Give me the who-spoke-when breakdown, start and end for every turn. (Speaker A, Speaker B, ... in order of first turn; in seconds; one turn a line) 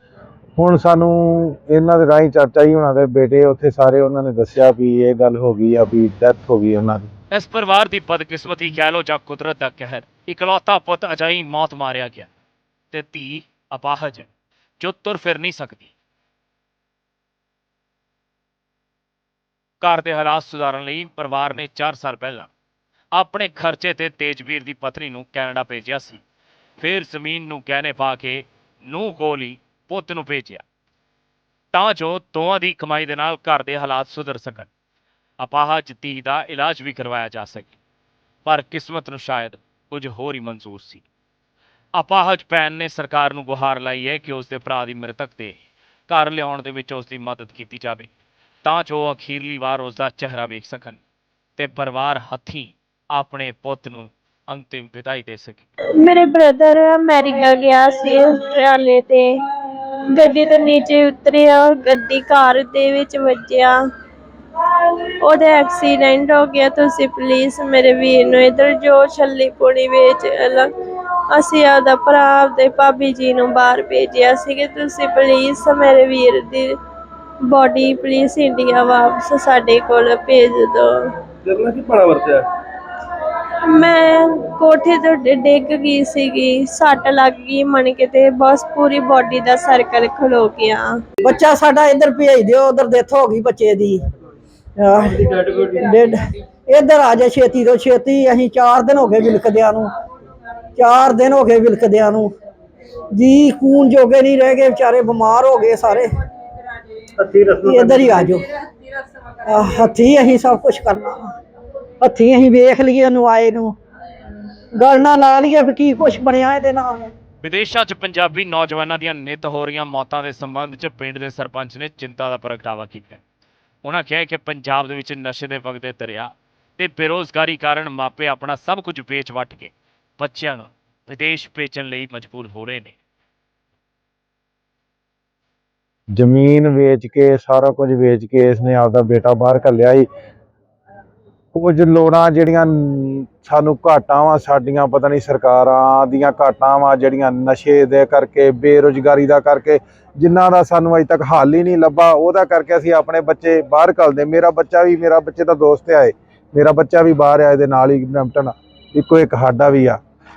Speaker A: 0.6-7.1
Speaker B: 7.3-12.3
Speaker B: 12.9-14.3
Speaker B: 14.8-15.9
Speaker B: 19.8-22.5
Speaker B: 23.1-26.2
Speaker B: 26.8-30.6
Speaker B: 31.7-34.7
Speaker B: 35.4-37.7
Speaker B: 38.4-41.0
Speaker B: 42.0-45.5
Speaker B: 46.1-48.1
Speaker B: 48.6-51.0
Speaker B: 51.6-55.6
Speaker C: 56.0-59.3
Speaker C: 60.1-63.8
Speaker C: 64.6-70.7
Speaker C: 71.3-76.7
Speaker C: 77.5-80.9
Speaker D: 81.4-82.4
Speaker C: 83.7-90.9
Speaker E: 91.2-94.0
Speaker E: 94.8-96.1
Speaker E: 96.7-99.9
Speaker E: 100.8-102.3
Speaker E: 103.1-106.1
Speaker D: 107.3-108.3
Speaker E: 107.5-108.4
Speaker E: 109.5-111.3
Speaker E: 112.0-113.7
Speaker E: 114.8-117.0
Speaker B: 117.4-123.2
Speaker B: 123.8-132.9
Speaker A: 136.1-140.1
Speaker A: 141.5-160.0